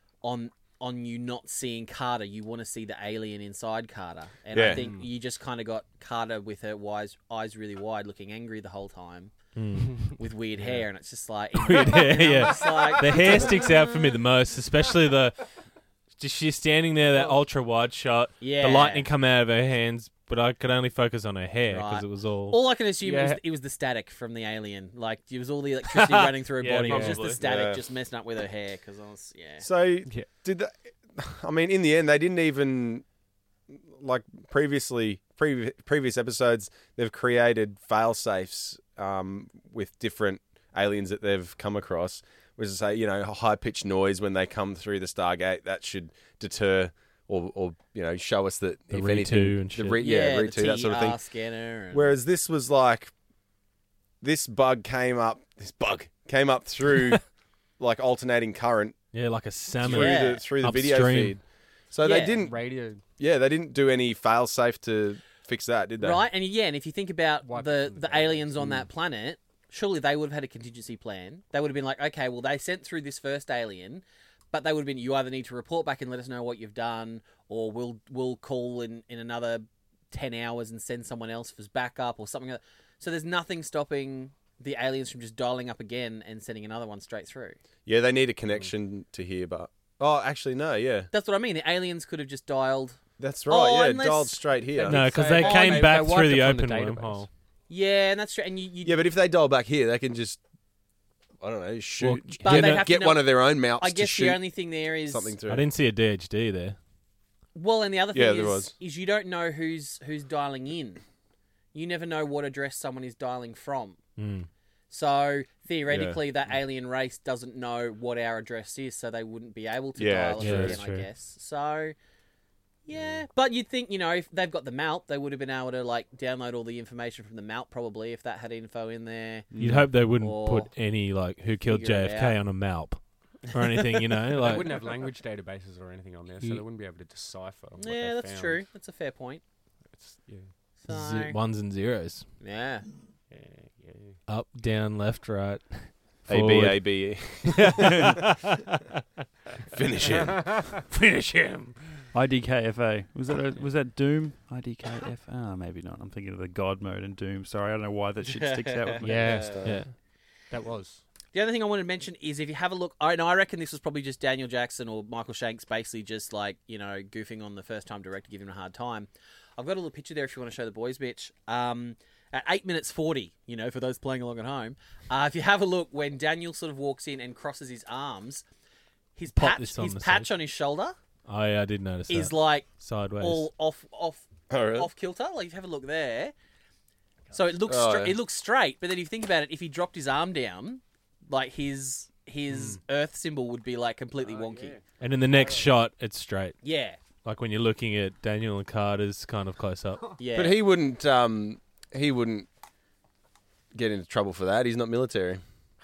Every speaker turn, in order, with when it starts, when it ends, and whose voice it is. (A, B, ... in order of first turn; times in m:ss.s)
0:00.2-0:09.3 A
0:04.5-0:04.8 B
0:04.7-0:05.1 C
0:09.5-0:10.1 D
0:09.8-0:10.8 C
0:10.2-0:13.8 A
0:11.6-0:15.4 D
0:16.2-0:22.6 D
0:18.4-0:19.1 A
0:21.7-0:29.6 A
0:23.0-0:23.4 C
0:26.0-0:27.3 C
0:26.6-0:27.4 D
0:27.4-0:27.8 B
0:29.6-0:33.0 B
0:33.9-0:51.2 B
0:48.9-0:50.0 D
0:50.0-0:52.1 A
0:51.9-0:53.1 B
0:54.2-0:57.2 B
0:57.8-0:59.0 B
0:59.1-1:01.4 D
0:59.8-1:02.6 B
0:59.9-1:00.4 A
1:02.0-1:02.4 A
1:02.4-1:03.0 C
1:03.2-1:06.2 B
1:06.0-1:27.6 A
1:07.4-1:08.7 C
1:27.8-1:31.1 B
1:31.1-1:36.0 A
1:33.2-1:35.0 B
1:34.8-1:37.3 D
1:34.8-1:37.3 C
1:37.7-1:39.0 A
1:38.8-1:40.4 B
1:41.4-1:44.4 B
1:42.0-1:42.9 D
1:42.4-1:45.3 A
1:45.1-1:45.7 B
1:45.5-1:46.8 D
1:47.5-1:51.0 A
1:48.1-1:48.7 B
1:51.7-1:54.0 A
1:54.2-1:54.5 D
1:54.9-2:01.9 A
1:55.9-1:56.2 B
2:00.0-2:00.8 B
2:00.4-2:01.1 D
2:02.8-2:09.5 A
2:02.9-2:03.2 B
2:09.6-2:14.8 D
2:10.1-2:10.7 A
2:11.6-2:12.4 A
2:14.4-2:18.6 C
2:17.8-2:19.4 A
2:19.9-2:20.5 C
2:20.8-2:21.4 A
2:20.9-2:22.2 D
2:22.4-2:22.9 A
2:23.3-2:24.2 C
2:24.3-2:28.8 D
2:26.3-2:27.9 B
2:29.7-2:30.4 B
2:30.9-2:31.7 D
2:32.1-2:39.5 E
2:38.2-2:39.4 A
2:39.0-2:39.8 C
2:39.4-2:39.8 B
2:39.6-2:39.9 D
2:40.5-2:41.0 C
2:41.3-2:58.4 A
2:59.2-3:01.0 A
2:59.3-3:00.3 D
3:01.2-3:03.5 D
3:02.1-3:06.3 A
3:04.5-3:04.9 B
3:07.3-3:14.8 A
3:07.7-3:08.2 B
3:14.4-3:14.7 C
3:15.0-3:16.6 D
3:16.6-3:17.0 A
3:17.2-3:20.0 D
3:20.2-3:20.6 A
3:20.3-3:22.5 B
3:23.7-3:25.4 B